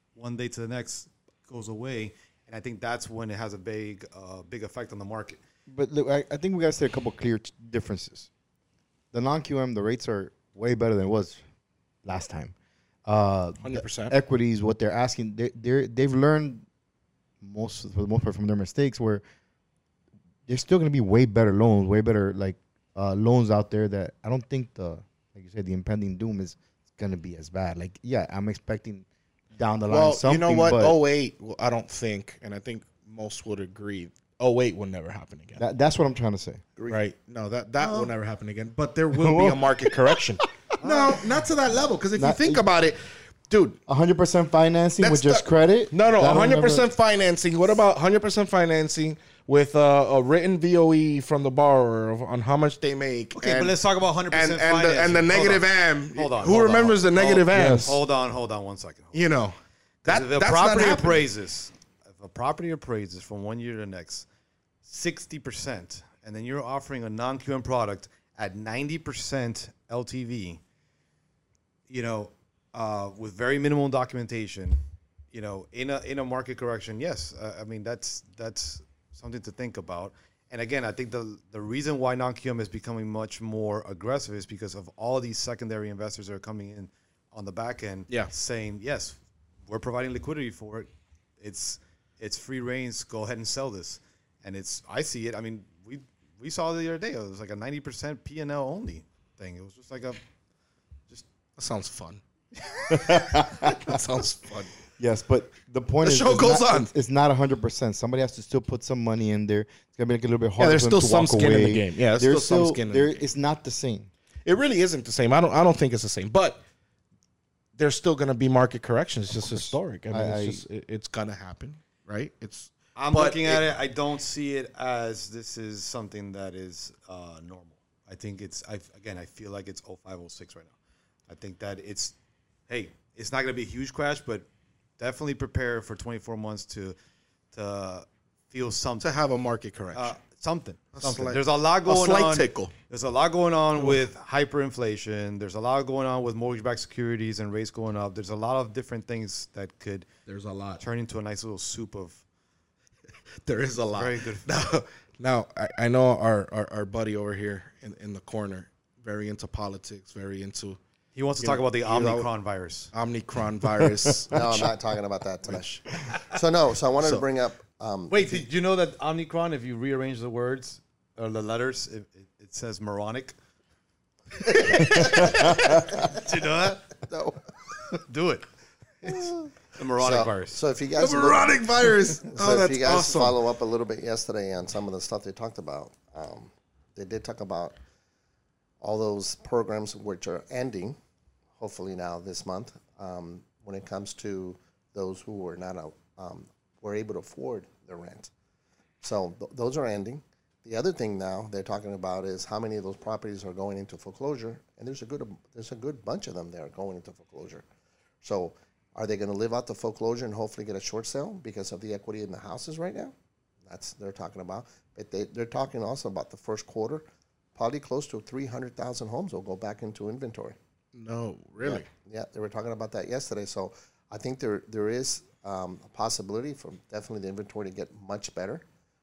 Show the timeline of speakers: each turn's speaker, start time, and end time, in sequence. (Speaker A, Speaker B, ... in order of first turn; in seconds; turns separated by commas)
Speaker A: 0.1-5.4, Speaker B: 5.7-8.3, Speaker B: 9.1-11.4, Speaker B: 12.1-12.5, Speaker B: 13.1-16.6, Speaker C: 13.6-14.2, Speaker B: 17.4-19.2, Speaker B: 20.5-31.0, Speaker C: 29.9-35.6, Speaker B: 35.6-36.7, Speaker C: 36.9-43.0, Speaker B: 39.1-40.1, Speaker A: 40.8-41.1, Speaker B: 42.2-42.6, Speaker C: 43.5-43.8, Speaker B: 43.9-46.9, Speaker C: 45.0-53.8, Speaker A: 53.4-59.2, Speaker C: 54.3-58.0, Speaker B: 57.5-58.0, Speaker C: 59.1-59.5, Speaker A: 60.0-64.3, Speaker C: 60.1-61.2, Speaker A: 64.8-70.6, Speaker A: 71.9-74.8, Speaker A: 75.3-90.9, Speaker A: 91.4-100.2, Speaker C: 101.6-102.2, Speaker B: 102.9-104.0, Speaker C: 102.9-104.7, Speaker B: 105.0-114.1, Speaker C: 106.0-106.9, Speaker C: 110.6-113.2, Speaker C: 114.5-116.6, Speaker C: 117.8-123.6, Speaker B: 119.5-120.6, Speaker A: 123.0-130.7, Speaker A: 131.3-132.2, Speaker A: 132.7-134.5, Speaker A: 135.0-137.0, Speaker A: 137.5-139.1, Speaker C: 139.0-140.2, Speaker A: 139.9-150.1, Speaker C: 140.9-142.7, Speaker C: 150.3-150.8, Speaker A: 150.8-152.2, Speaker C: 153.4-160.8, Speaker A: 153.9-154.5, Speaker A: 161.2-162.9, Speaker C: 161.4-162.3, Speaker C: 162.9-164.7, Speaker B: 163.8-164.2, Speaker D: 164.3-168.5, Speaker C: 165.4-165.8, Speaker A: 168.1-173.3, Speaker D: 174.5-176.2, Speaker A: 174.5-176.9, Speaker D: 177.0-177.4, Speaker A: 178.0-178.5, Speaker D: 179.0-187.8, Speaker A: 179.8-180.6, Speaker C: 181.0-183.4, Speaker D: 188.8-191.0, Speaker D: 191.6-198.3, Speaker D: 199.0-207.7, Speaker D: 208.2-213.1, Speaker D: 213.7-220.6, Speaker C: 220.9-221.9, Speaker D: 221.6-228.7